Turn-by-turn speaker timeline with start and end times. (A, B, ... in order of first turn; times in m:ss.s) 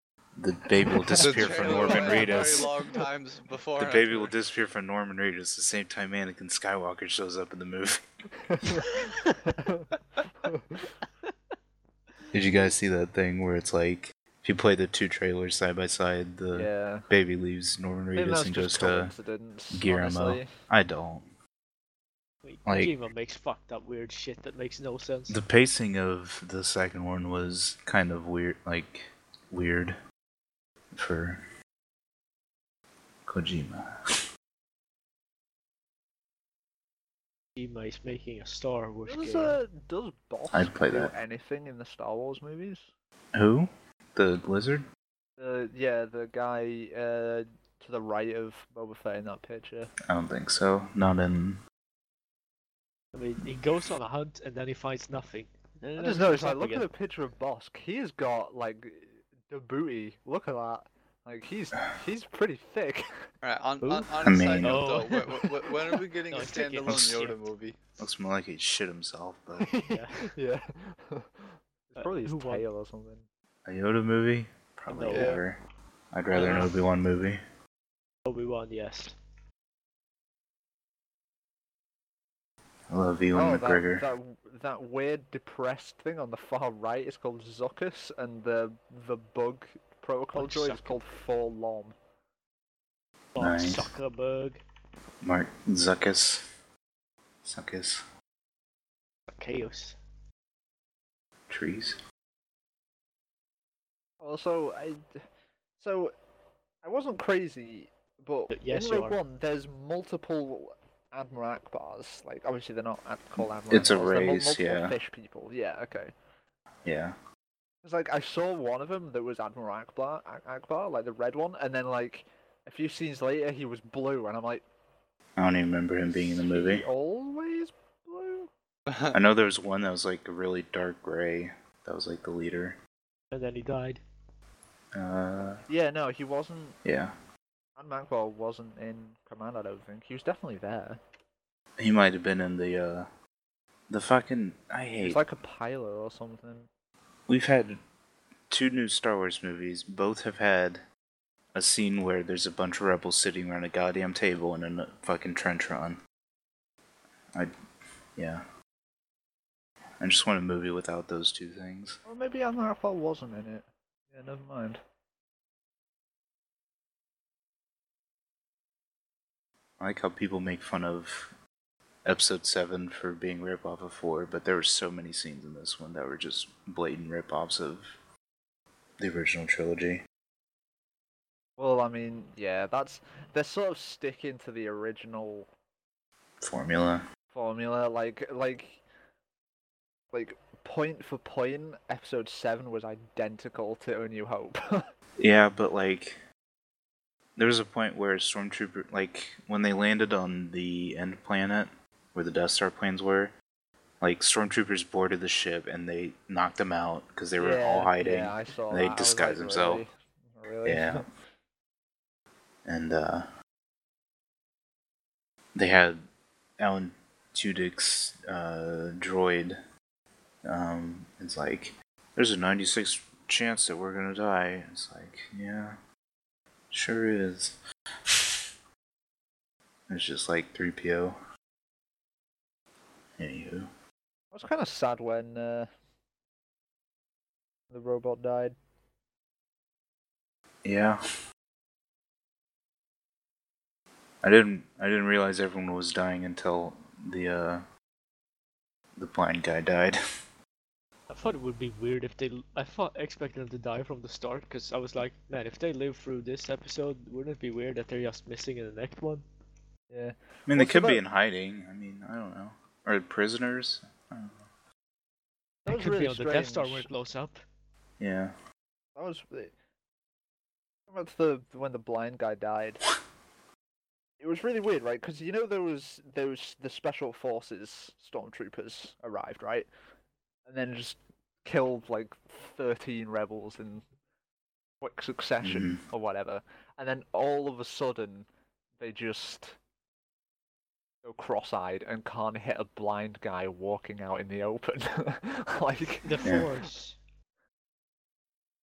0:00.4-0:02.7 A
0:01.2-0:04.3 B
0:01.2-0:02.7 C
0:01.7-0:02.4 D
0:03.8-0:08.0 A
0:08.5-0:08.9 D
0:08.9-0:09.2 C
0:09.5-0:09.9 D
0:10.4-0:10.9 D
0:12.3-0:19.1 A
0:16.5-0:17.1 D
0:18.2-0:20.5 D
0:19.7-0:21.3 A
0:22.4-0:25.4 C
0:22.7-0:23.0 A
0:25.3-0:30.0 A
0:30.9-0:31.4 A
0:33.3-0:33.9 A
0:37.6-0:39.6 C
0:39.1-0:42.9 D
0:40.5-0:41.1 A
0:43.4-0:44.8 A
0:45.4-0:49.9 D
0:50.1-0:51.6 A
0:53.1-0:56.9 C
0:56.0-1:03.1 D
1:03.4-1:07.8 B
1:03.8-1:05.2 C
1:04.2-1:04.9 A
1:06.3-1:07.5 C
1:08.0-1:09.7 A
1:09.6-1:13.3 D
1:09.9-1:10.3 C
1:12.0-1:12.6 C
1:13.7-1:15.6 A
1:14.9-1:15.4 C
1:15.1-1:15.4 B
1:16.1-1:17.4 A
1:16.4-1:16.7 C
1:16.4-1:16.7 B
1:18.3-1:19.2 C
1:22.9-1:24.0 A
1:23.3-1:32.0 D
1:30.3-1:31.0 C
1:33.4-1:34.6 C
1:33.4-1:33.9 A
1:35.2-1:36.4 A
1:37.4-1:38.0 A
1:39.3-1:40.0 C
1:41.5-1:42.0 A
1:44.2-1:45.2 D
1:45.8-1:46.1 D
1:46.8-1:56.1 D
1:48.5-1:49.2 C
1:53.4-1:55.0 A
1:56.8-1:57.2 A
1:57.8-2:04.6 D
2:05.4-2:06.9 A
2:06.1-2:08.5 D
2:08.9-2:09.2 B
2:09.1-2:12.8 A
2:13.3-2:14.0 C
2:15.0-2:15.6 A
2:15.7-2:16.8 D
2:16.8-2:17.2 A
2:17.8-2:21.0 D
2:21.8-2:23.1 A
2:23.9-2:25.2 A
2:25.0-2:26.7 D
2:27.3-2:27.8 A
2:28.5-2:30.8 A
2:31.5-2:36.0 A
2:38.2-2:38.4 A
2:40.0-2:42.0 A
2:42.1-2:44.8 D
2:49.8-2:51.3 A
2:52.0-2:57.9 A
2:59.0-3:00.0 A
3:01.6-3:05.5 D
3:06.4-3:07.0 A
3:07.3-3:08.8 D
3:10.1-3:14.9 D
3:15.2-3:16.2 A
3:17.4-3:23.3 A
3:24.0-3:29.8 A
3:27.4-3:31.1 D
3:30.6-3:31.0 A
3:32.6-3:33.3 A
3:35.6-3:36.0 A
3:36.6-3:39.6 A
3:40.4-3:45.8 A
3:46.7-3:48.4 A
3:49.9-3:51.2 A
3:53.2-3:53.7 A
3:54.3-3:55.7 D
3:57.7-3:58.6 D
4:00.6-4:01.0 A
4:04.2-4:07.6 A
4:09.0-4:10.0 A
4:11.1-4:19.2 C
4:19.9-4:21.0 D
4:20.5-4:24.4 A
4:25.6-4:26.9 D
4:25.7-4:27.4 C
4:28.0-4:28.3 A
4:29.0-4:29.5 D
4:30.9-4:32.8 D
4:34.2-4:39.7 D
4:40.5-4:43.8 D
4:44.8-4:48.3 D
4:45.4-4:45.8 A
4:48.8-4:49.6 D
4:51.0-4:56.3 D
4:56.0-4:57.0 C
4:56.2-4:56.5 A